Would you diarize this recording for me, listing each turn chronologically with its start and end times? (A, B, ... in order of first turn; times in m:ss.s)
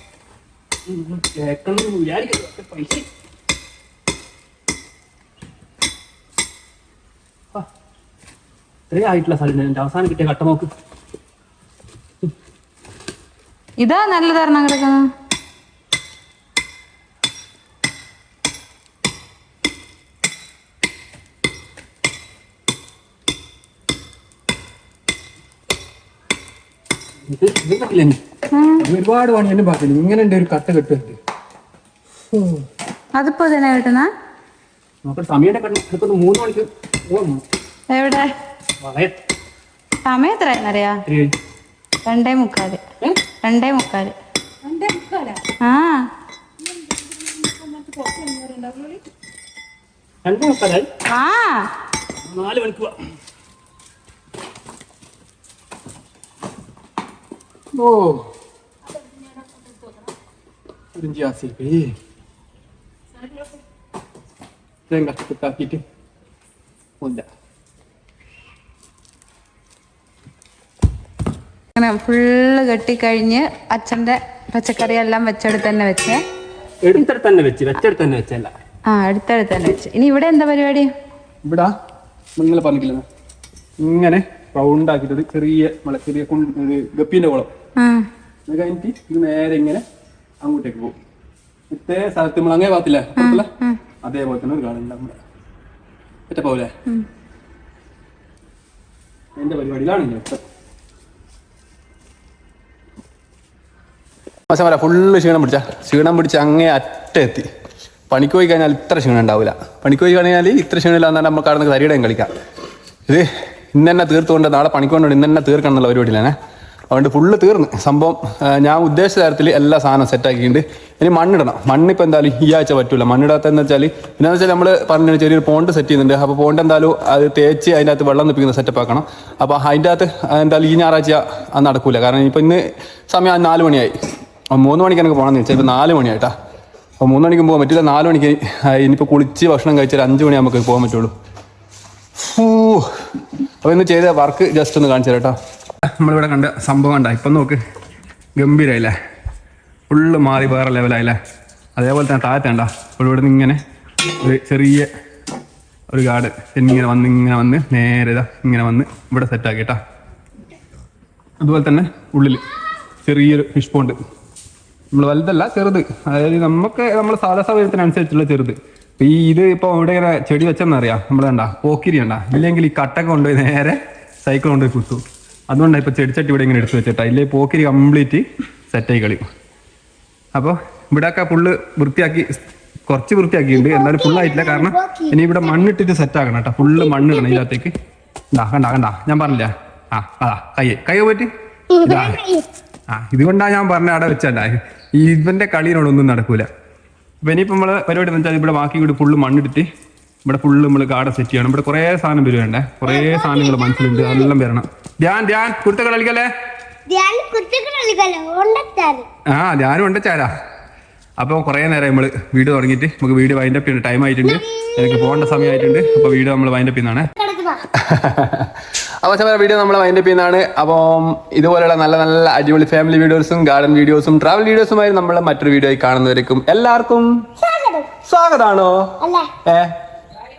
0:00.9-0:03.0 A
0:08.9-0:10.7 A
0:13.8-0:15.0 B
0:27.3-0:28.2 A
0:28.5-0:28.8 B
0:28.8-0:31.2 A
0:32.3-0:32.6 A
0:33.2-0:34.1 B
0:35.0-0:37.4 A
0:37.9-0:38.3 B
0:38.8-0:39.1 A
0:40.0-0:41.0 B
0:41.1-0:41.3 A
0:42.0-0:44.1 B
0:44.8-0:45.3 A
0:45.1-0:46.1 B
0:47.6-0:48.0 A
0:47.9-0:49.0 B
0:50.2-0:50.9 A
0:51.0-0:51.6 B
0:52.2-0:52.9 A
0:57.8-0:58.3 A
1:01.0-1:01.9 A
1:04.9-1:05.8 A
1:07.0-1:07.2 A
1:11.8-1:16.2 B
1:16.8-1:18.5 A
1:18.9-1:20.9 B
1:21.4-1:21.7 A
1:22.4-1:23.0 A
1:23.8-1:27.5 A
1:27.8-1:28.1 B
1:28.5-1:29.8 A
1:30.4-1:30.9 A
1:31.7-1:33.5 A
1:33.2-1:33.8 B
1:34.0-1:35.2 A
1:36.3-1:36.7 A
1:39.4-1:40.4 A
1:44.5-1:47.5 A
1:48.1-1:52.3 A
1:53.1-1:56.3 A
1:56.9-2:13.9 A
2:14.5-2:16.3 A
2:17.0-2:21.1 A
2:22.2-2:22.9 A
2:23.6-2:25.3 A
2:26.0-2:27.6 A
2:28.4-2:28.9 A
2:29.9-2:31.2 A
2:31.8-2:33.6 A
2:34.2-2:34.9 A
2:35.9-2:39.8 A
2:41.4-2:42.5 A
2:43.0-2:44.0 A
2:44.9-2:59.2 A
3:00.3-3:02.4 A
3:02.9-3:07.7 A
3:03.5-3:05.5 C
3:06.6-3:07.4 C
3:08.3-3:11.3 A
3:11.7-3:12.5 C
3:11.8-3:12.2 A
3:12.9-3:16.5 A
3:17.2-3:19.7 A
3:20.2-3:26.3 A
3:22.8-3:24.3 C
3:26.9-3:29.1 C
3:29.3-3:30.3 A
3:31.2-3:37.1 A
3:34.2-3:36.2 C
3:37.2-3:37.6 C
3:37.7-3:47.2 A
3:47.4-3:47.9 C
3:48.0-3:48.9 A
3:49.0-3:49.3 C
3:49.4-3:49.7 A